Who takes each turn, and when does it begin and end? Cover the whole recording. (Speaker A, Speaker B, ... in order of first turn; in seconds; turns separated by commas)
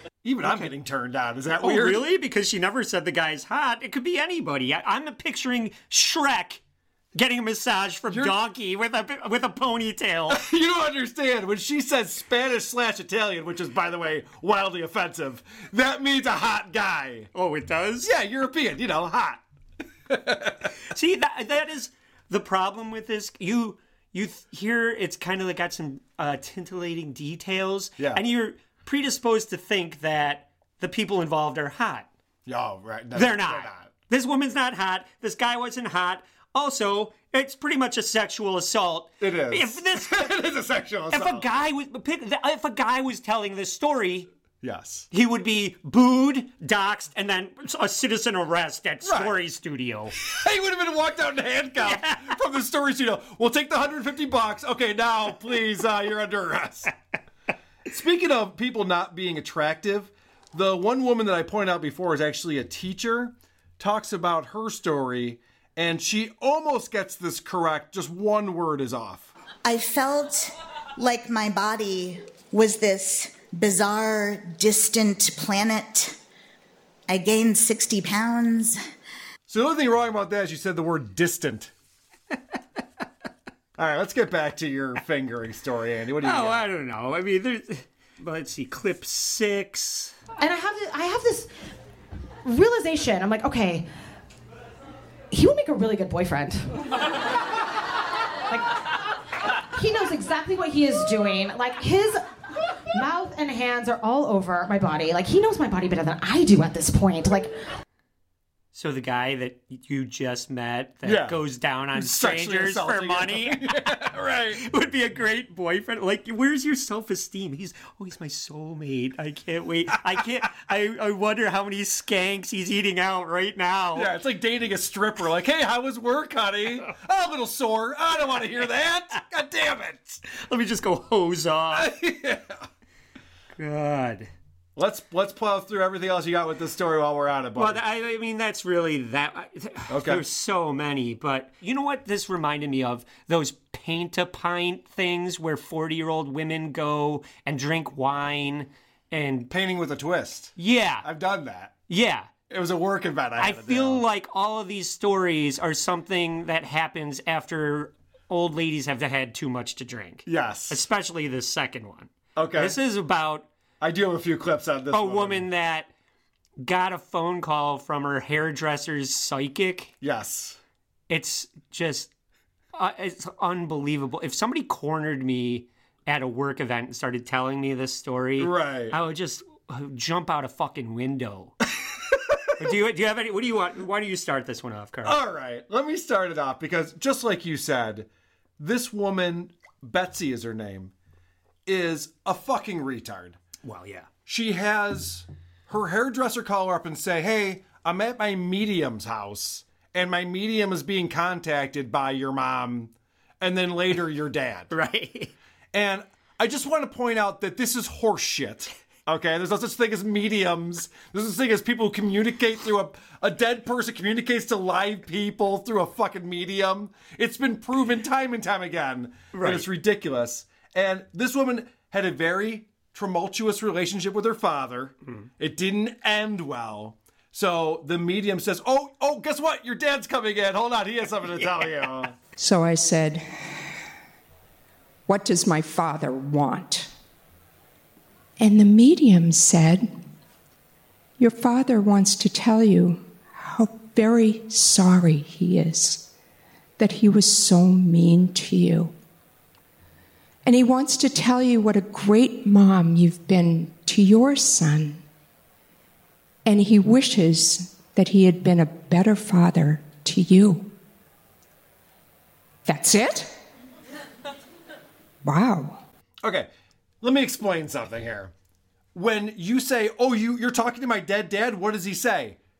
Speaker A: 0.2-2.0, Speaker B: 0.4-0.7, Speaker B: 1.6-6.6, Speaker B: 7.1-10.4, Speaker A: 10.3-17.3, Speaker B: 17.3-18.1, Speaker A: 18.0-19.4, Speaker A: 20.1-20.7, Speaker B: 20.9-32.1, Speaker A: 32.5-33.9, Speaker B: 33.1-40.3, Speaker A: 39.2-41.5, Speaker B: 41.1-44.3, Speaker A: 44.6-45.1, Speaker B: 45.1-50.1, Speaker A: 49.0-49.4, Speaker A: 50.2-56.9, Speaker B: 51.8-52.3, Speaker A: 57.9-69.3, Speaker C: 69.6-76.2, Speaker C: 77.1-78.8, Speaker A: 79.5-81.7, Speaker A: 83.8-86.6, Speaker B: 86.2-90.2, Speaker D: 90.4-91.5, Speaker D: 92.4-93.9, Speaker D: 95.3-96.8, Speaker D: 99.7-102.2, Speaker D: 102.9-107.6, Speaker B: 108.7-113.7, Speaker A: 111.0-111.4, Speaker A: 111.9-114.6, Speaker B: 114.5-124.1, Speaker A: 123.9-130.2, Speaker B: 130.3-131.9, Speaker A: 131.7-132.7, Speaker B: 133.6-134.3, Speaker A: 134.8-137.8, Speaker B: 137.6-149.5, Speaker A: 139.9-140.2, Speaker A: 149.5-151.8, Speaker B: 150.6-151.1, Speaker B: 151.9-152.3, Speaker A: 152.5-154.0, Speaker B: 153.4-163.5, Speaker A: 160.3-160.8, Speaker A: 162.3-162.8, Speaker A: 163.8-165.4, Speaker B: 164.9-165.9, Speaker B: 166.6-169.9, Speaker A: 170.0-170.6, Speaker B: 171.1-172.1, Speaker B: 172.7-181.5, Speaker A: 178.4-178.9, Speaker B: 182.6-185.2, Speaker A: 185.0-188.1, Speaker A: 188.6-190.9, Speaker A: 191.7-193.4, Speaker B: 193.6-194.1, Speaker A: 194.2-204.7, Speaker B: 204.7-205.3, Speaker A: 205.7-232.1, Speaker B: 219.3-219.7, Speaker E: 232.4-233.7, Speaker E: 235.1-236.9, Speaker E: 238.4-239.9, Speaker E: 241.2-246.1, Speaker E: 246.8-248.9, Speaker E: 250.4-255.0, Speaker E: 256.4-260.7, Speaker E: 262.6-263.3, Speaker E: 265.2-265.8, Speaker A: 266.2-266.5, Speaker A: 267.0-268.3, Speaker A: 268.9-272.4